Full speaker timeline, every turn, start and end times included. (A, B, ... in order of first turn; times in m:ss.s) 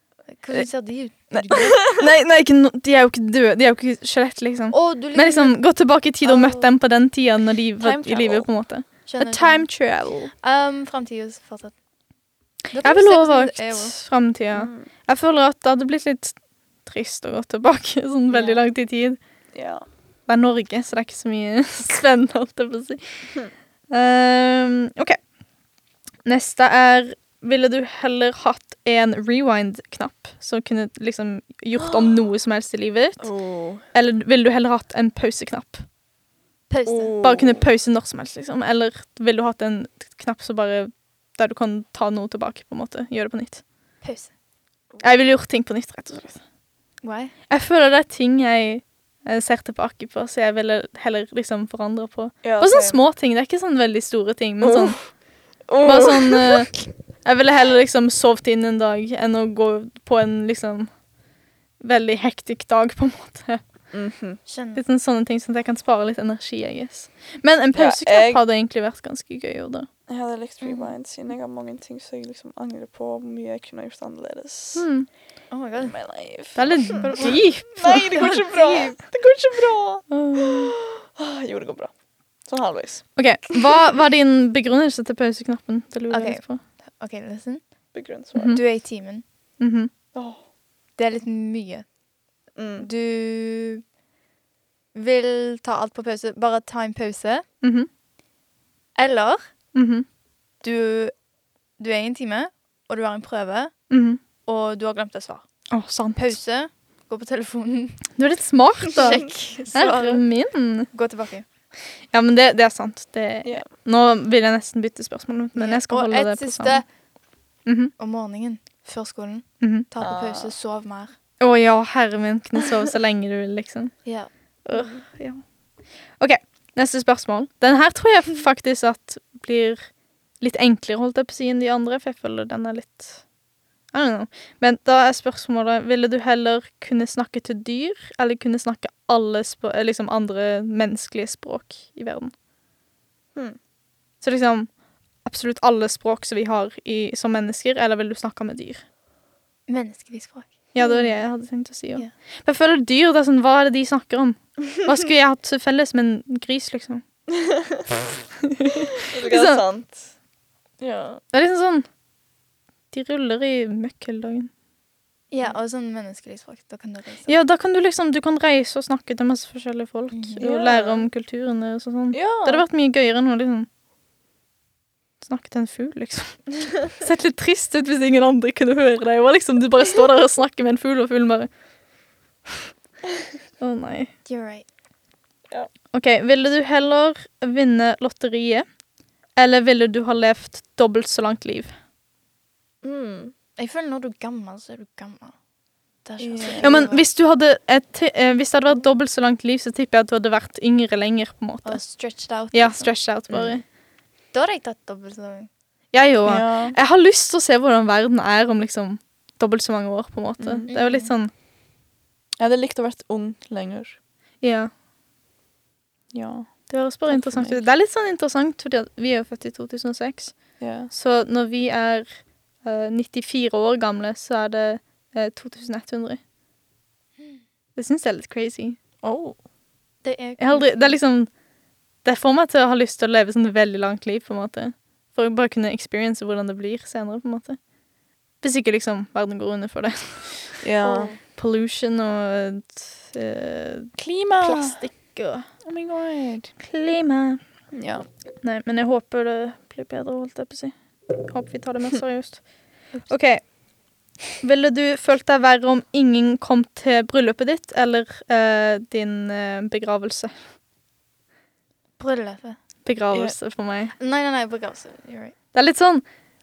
0:00.3-0:01.8 A
0:01.3-0:10.3 B
0:04.7-0:05.6 A
0:06.2-0:06.7 A
0:07.8-0:08.5 C
0:09.0-0:09.7 A
0:10.4-0:11.7 A
0:12.7-0:14.0 A
0:12.8-0:19.2 B
0:14.5-0:14.9 C
0:18.3-0:18.6 A
0:19.5-0:19.8 C
0:20.3-0:23.0 B
0:23.9-0:25.2 B
0:26.2-0:35.8 B
0:31.8-0:32.2 C
0:33.2-0:33.8 C
0:36.7-0:37.2 A
0:36.8-0:37.7 C
0:37.2-0:43.6 B
0:44.0-0:44.3 A
0:45.0-0:46.4 B
0:47.0-0:47.3 A
0:47.5-0:55.2 B
0:52.4-0:53.0 C
0:54.6-0:55.1 C
0:55.6-0:56.7 C
0:55.8-1:00.9 B
1:01.8-1:03.6 B
1:03.9-1:04.4 C
1:04.4-1:04.8 A
1:04.8-1:09.9 B
1:07.7-1:08.4 C
1:10.1-1:14.9 C
1:10.6-1:10.9 A
1:14.8-1:15.1 B
1:15.5-1:16.0 A
1:15.8-1:21.9 C
1:16.5-1:18.4 B
1:17.0-1:17.5 A
1:18.0-1:19.0 A
1:20.1-1:20.8 B
1:22.4-1:23.6 C
1:23.2-1:26.6 B
1:26.1-1:27.6 A
1:27.9-1:28.6 C
1:28.3-1:28.6 B
1:28.5-1:29.2 A
1:29.6-1:29.9 B
1:30.1-1:30.4 C
1:31.0-1:31.8 A
1:32.5-1:32.9 C
1:32.8-1:33.8 A
1:34.9-1:37.4 A
1:37.6-1:37.9 B
1:39.0-1:39.4 A
1:39.7-1:40.0 B
1:40.6-1:41.1 A
1:41.8-1:43.7 A
1:43.9-1:44.2 B
1:44.4-1:45.4 A
1:45.7-1:46.4 B
1:46.2-1:48.1 A
1:48.2-1:50.9 B
1:48.8-1:50.2 A
1:50.9-1:51.4 A
1:52.1-1:56.8 B
1:55.5-1:56.8 A
1:57.6-1:57.9 B
1:58.0-2:01.1 A
1:59.6-1:59.9 B
2:00.0-2:00.5 C
2:01.4-2:04.0 B
2:04.0-2:04.3 A
2:04.6-2:05.4 B
2:06.2-2:13.2 B
2:13.9-2:22.3 B
2:24.2-2:24.7 B
2:25.2-2:28.8 B
2:29.7-2:31.1 A
2:30.7-2:37.0 B
2:37.3-2:37.8 C
2:38.4-2:39.6 B
2:39.0-2:40.1 C
2:40.8-2:41.2 C
2:41.3-2:41.8 B
2:42.9-2:44.5 B
2:45.3-2:47.4 A
2:47.3-2:53.7 B
2:50.1-2:50.4 A
2:50.4-2:51.1 C
2:52.1-2:52.6 C
2:55.2-3:01.5 B
3:03.6-3:04.1 B
3:04.2-3:04.6 A
3:05.9-3:08.6 B
3:09.4-3:11.7 B
3:12.8-3:13.3 C
3:13.6-3:15.3 A
3:16.0-3:17.0 A
3:16.2-3:17.0 C
3:16.6-3:21.8 B
3:21.6-3:22.9 A
3:22.5-3:23.6 B
3:23.3-3:23.6 C
3:24.3-3:25.5 A
3:25.9-3:31.3 B
3:26.2-3:26.8 C
3:30.4-3:30.7 C
3:30.7-3:31.1 A
3:32.4-3:34.0 C
3:34.4-3:34.7 B
3:36.1-3:37.7 C
3:36.7-3:46.2 B
3:40.6-3:40.9 C
3:47.8-3:48.8 B
3:49.0-3:49.4 C
3:50.0-3:51.0 A
3:50.4-3:51.3 B
3:52.0-3:57.6 B
3:58.4-4:00.6 B
4:00.6-4:01.1 C
4:00.8-4:01.2 A
4:01.3-4:05.5 B
4:04.0-4:04.8 C
4:05.6-4:06.5 C
4:06.6-4:07.4 B
4:07.7-4:08.1 C
4:08.4-4:13.4 B
4:14.4-4:20.3 B
4:22.0-4:22.6 A
4:22.8-4:23.9 B
4:24.0-4:25.3 A
4:25.5-4:26.0 B